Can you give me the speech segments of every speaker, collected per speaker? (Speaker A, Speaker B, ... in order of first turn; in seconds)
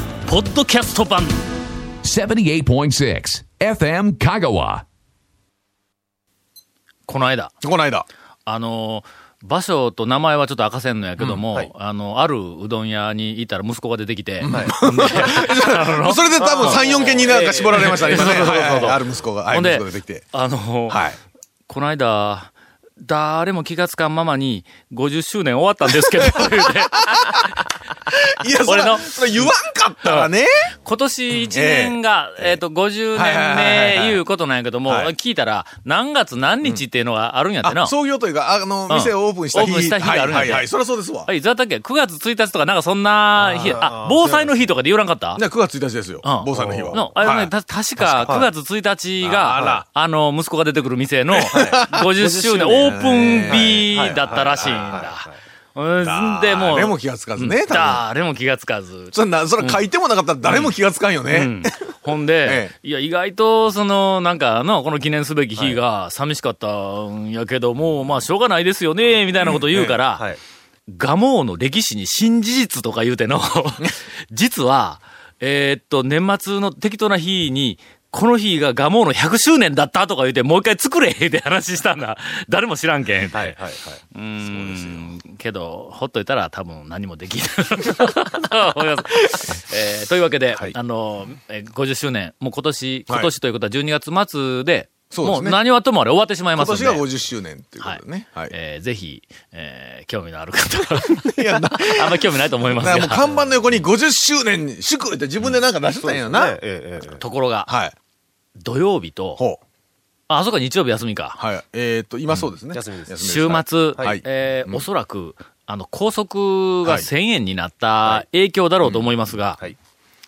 Speaker A: 0.2-1.4, 7.1-7.5, 8.4-16.8, 17.7-19.0, 19.5-21.0, 21.7-27.4, 28.6-29.2, 30.0-30.3, 30.8-37.9, 38.9-40.7, 41.2-45.4, 46.2-59.8, 61.3-70.3, 70.9-83.6, 84.1-97.0, 97.8-103.3, 107.2-107.7, 108.6-109.4, 110.3-111.4, 113.2-119.6
Speaker B: 2.0-4.8
Speaker C: 7.6-8.1, 14.4-20.2, 20.9-21.2, 25.9-27.5, 28.1-30.7, 31.3-32.6, 33.1-34.2, 34.9-35.1, 37.6-41.3, 45.4-48.4, 49.2-49.8, 51.3-52.1, 52.7-54.9, 56.0-58.0, 59.1-61.9, 62.4-62.7, 69.4-70.0, 84.4-85.1, 95.1-95.6, 96.6-98.5, 101.0-106.6, 107.7-107.9, 111.4-114.8
Speaker D: 14.5-15.3, 16.4-18.7, 43.4-44.7, 46.5-47.1, 51.5-55.4, 83.3-84.0, 106.0-107.2, 112.7-113.1